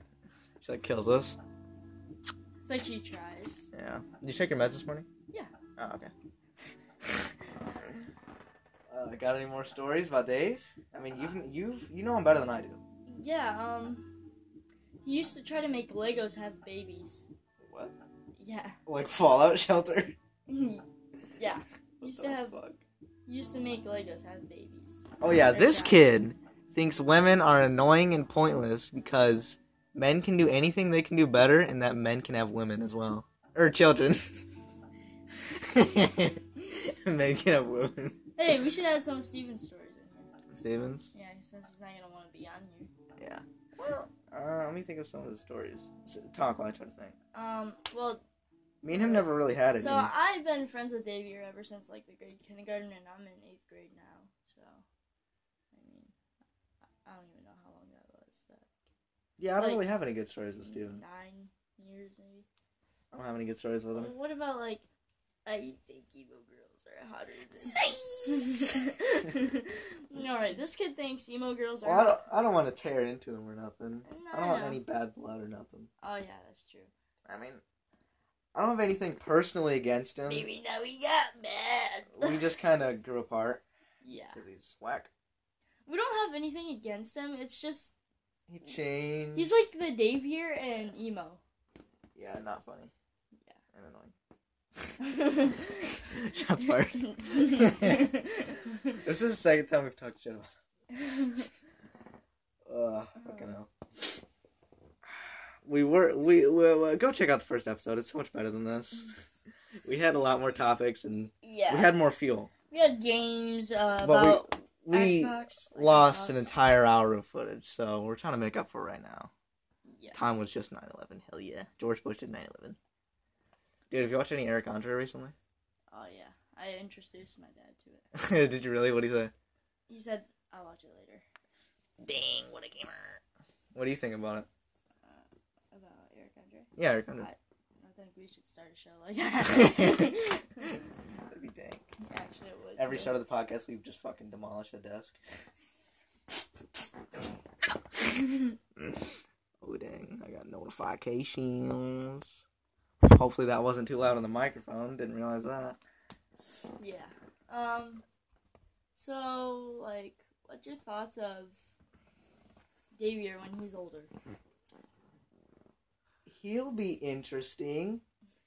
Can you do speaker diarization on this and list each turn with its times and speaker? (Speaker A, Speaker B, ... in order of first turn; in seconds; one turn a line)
Speaker A: 0.6-1.4
Speaker B: 2.6-3.7
Speaker A: 3.7-5.0
Speaker A: 5.8-6.1
Speaker A: 7.8-8.0
Speaker A: 8.9-12.8
Speaker B: 13.1-14.1
Speaker B: 15.0-17.2
Speaker A: 17.6-17.9
Speaker B: 18.4-18.8
Speaker A: 18.9-20.1
Speaker B: 20.5-20.8
Speaker B: 21.4-22.6
Speaker A: 22.0-22.8
Speaker B: 23.2-26.0
Speaker A: 25.2-34.2
Speaker A: 35.5-38.3
Speaker B: 38.4-40.3
Speaker A: 40.5-41.1
Speaker B: 41.1-42.9
Speaker A: 43.2-47.1
Speaker B: 47.3-48.2
Speaker A: 48.8-50.1
Speaker B: 48.9-54.8
Speaker B: 55.7-56.1
Speaker B: 57.0-58.7
Speaker A: 59.4-61.0
Speaker B: 59.6-59.9
Speaker B: 60.6-62.5
Speaker A: 63.1-64.1
Speaker B: 63.9-64.8
Speaker B: 65.4-72.2
Speaker A: 67.7-68.7
Speaker A: 71.8-75.9
Speaker B: 74.1-74.8
Speaker B: 76.0-76.9
Speaker A: 77.2-77.6
Speaker A: 78.5-80.5
Speaker B: 80.3-82.4
Speaker A: 82.1-83.6
Speaker B: 84.0-84.4
Speaker A: 84.3-85.1
Speaker B: 85.8-87.9
Speaker A: 88.5-89.5
Speaker B: 89.3-91.4
Speaker A: 92.2-92.9
Speaker A: 93.7-94.1
Speaker B: 95.0-95.8
Speaker A: 95.9-98.1
Speaker B: 96.6-99.0
Speaker A: 99.0-100.5
Speaker B: 100.9-101.5
Speaker A: 102.7-103.7
Speaker B: 103.2-103.5
Speaker A: 105.6-109.1
Speaker A: 109.8-112.5
Speaker B: 111.4-111.9
Speaker B: 112.7-116.5
Speaker A: 114.0-119.3
Speaker B: 119.8-120.2
Speaker A: 120.1-122.8
Speaker A: 123.9-125.3
Speaker B: 125.9-128.0
Speaker A: 128.1-129.3
Speaker B: 129.9-131.2
Speaker A: 132.0-133.2
Speaker A: 133.7-134.5
Speaker B: 135.0-140.8
Speaker A: 136.8-137.3
Speaker A: 139.5-140.1
Speaker A: 141.3-141.8
Speaker B: 142.0-143.1
Speaker A: 142.8-145.2
Speaker A: 148.8-152.4
Speaker A: 153.0-155.8
Speaker B: 156.8-158.0
Speaker B: 158.9-161.6
Speaker B: 162.9-164.1
Speaker A: 166.2-168.0